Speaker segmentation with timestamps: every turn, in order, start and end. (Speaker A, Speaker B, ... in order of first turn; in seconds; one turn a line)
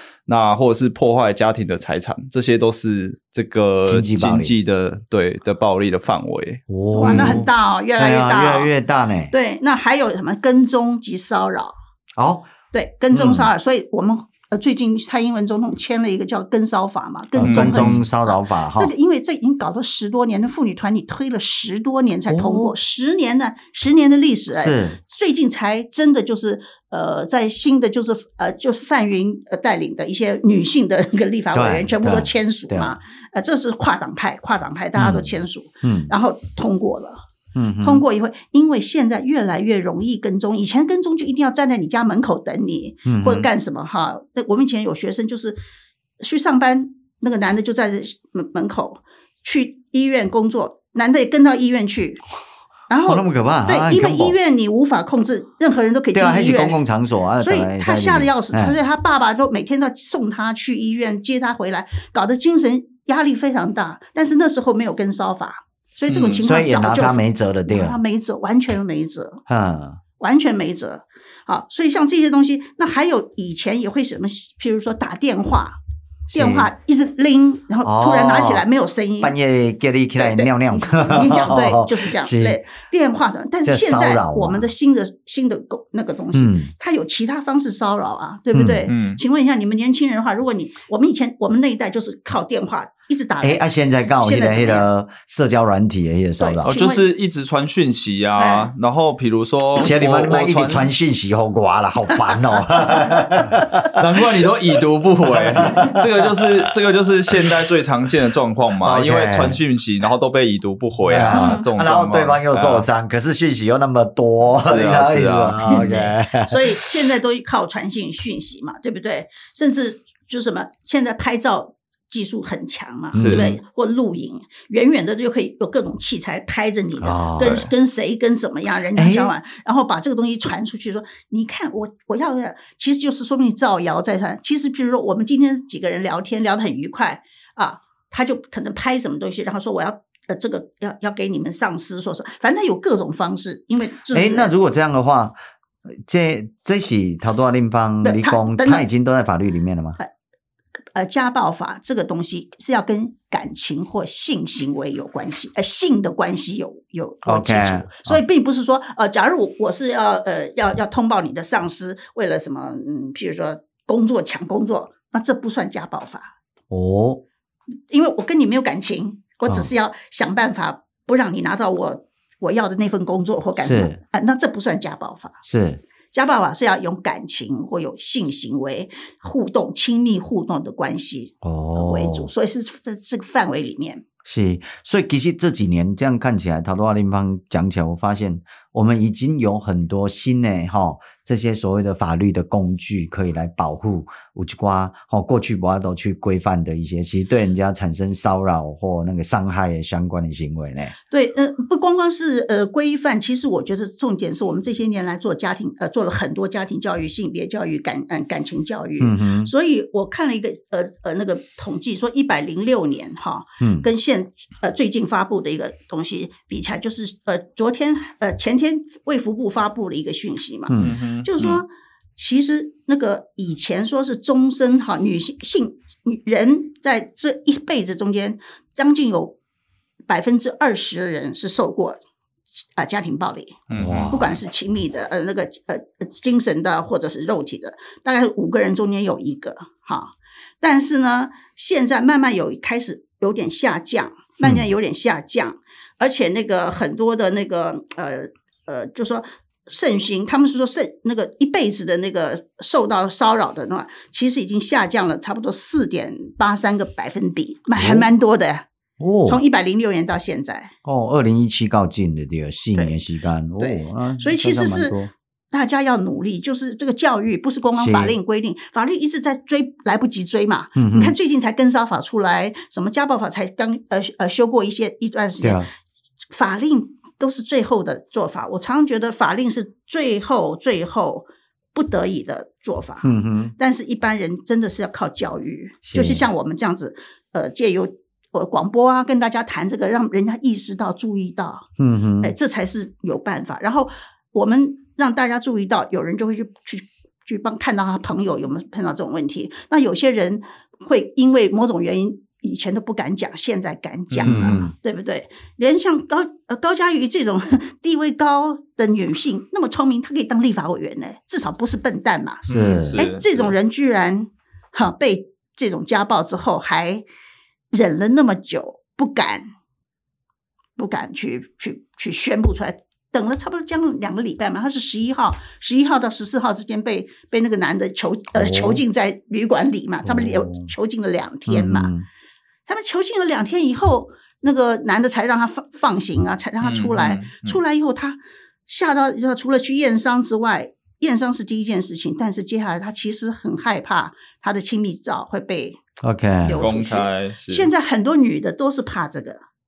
Speaker A: 0.3-7.4
Speaker B: 3.9-4.5
Speaker B: 6.7-9.3
Speaker C: 6.9-8.7
Speaker C: 9.3-11.7
Speaker B: 12.2-12.5
Speaker C: 12.7-37.2
Speaker B: 13.1-13.5
Speaker B: 17.4-18.9
Speaker A: 17.4-18.0
Speaker B: 22.3-22.7
Speaker B: 24.5-25.0
Speaker B: 31.5-33.0
Speaker B: 35.0-36.1
Speaker B: 37.5-38.0
Speaker C: 37.8-45.6
Speaker B: 43.0-43.5
Speaker C: 46.2-52.2
Speaker C: 52.9-56.8
Speaker B: 53.0-54.4
Speaker B: 56.1-58.8
Speaker C: 57.4-69.4
Speaker A: 66.1-66.4
Speaker B: 66.3-68.0
Speaker B: 69.5-70.0
Speaker C: 70.2-75.8
Speaker B: 76.3-76.7
Speaker C: 76.3-79.3
Speaker B: 77.8-78.6
Speaker B: 79.2-82.6
Speaker C: 80.2-93.6
Speaker B: 83.6-84.7
Speaker B: 86.3-86.7
Speaker B: 88.5-88.9
Speaker A: 88.9-89.2
Speaker B: 93.4-96.7
Speaker C: 94.2-94.9
Speaker C: 96.4-97.1
Speaker A: 96.6-100.9
Speaker C: 98.4-98.7
Speaker B: 99.8-104.0
Speaker A: 103.9-112.9
Speaker B: 105.3-106.7
Speaker B: 108.8-109.6
Speaker B: 111.1-116.9
Speaker C: 111.3-111.7
Speaker A: 114.6-116.1
Speaker C: 115.7-144.5
Speaker B: 123.1-123.6
Speaker A: 123.1-123.5
Speaker B: 127.0-127.6
Speaker A: 127.4-127.7
Speaker B: 128.9-129.3
Speaker B: 144.1-145.4
Speaker B: 146.1-150.0
Speaker C: 148.0-148.9
Speaker C: 150.9-166.3
Speaker B: 157.2-158.2
Speaker B: 166.7-167.2
Speaker C: 167.9-175.4
Speaker B: 173.6-174.0
Speaker B: 175.4-175.8
Speaker C: 176.1-184.0
Speaker B: 181.4-182.3
Speaker B: 184.2-200.9
Speaker C: 201.1-229.4
Speaker B: 209.0-209.5
Speaker B: 213.6-213.9
Speaker B: 220.7-221.0
Speaker A: 220.8-221.6
Speaker C: 230.1-232.0
Speaker C: 232.8-258.6
Speaker A: 233.7-234.4
Speaker B: 233.8-234.3
Speaker B: 244.4-244.7
Speaker B: 257.8-258.1
Speaker B: 259.0-259.4
Speaker C: 259.2-260.7
Speaker B: 260.9-265.1
Speaker C: 262.8-263.0
Speaker C: 263.6-265.0
Speaker C: 265.5-275.6
Speaker B: 267.8-268.1
Speaker B: 270.8-271.1
Speaker B: 275.4-275.7
Speaker C: 276.3-291.6
Speaker B: 283.0-283.5
Speaker B: 285.9-286.2
Speaker B: 291.8-292.3
Speaker C: 292.2-317.0
Speaker A: 304.1-304.6
Speaker B: 304.2-304.7
Speaker A: 312.5-313.5
Speaker B: 312.5-313.0
Speaker C: 317.7-319.4
Speaker C: 320.8-331.9
Speaker B: 328.3-328.8
Speaker B: 330.0-330.7
Speaker B: 331.5-332.1
Speaker C: 332.6-345.8
Speaker A: 336.6-337.6
Speaker B: 346.0-346.7
Speaker C: 346.4-349.4
Speaker A: 346.6-347.7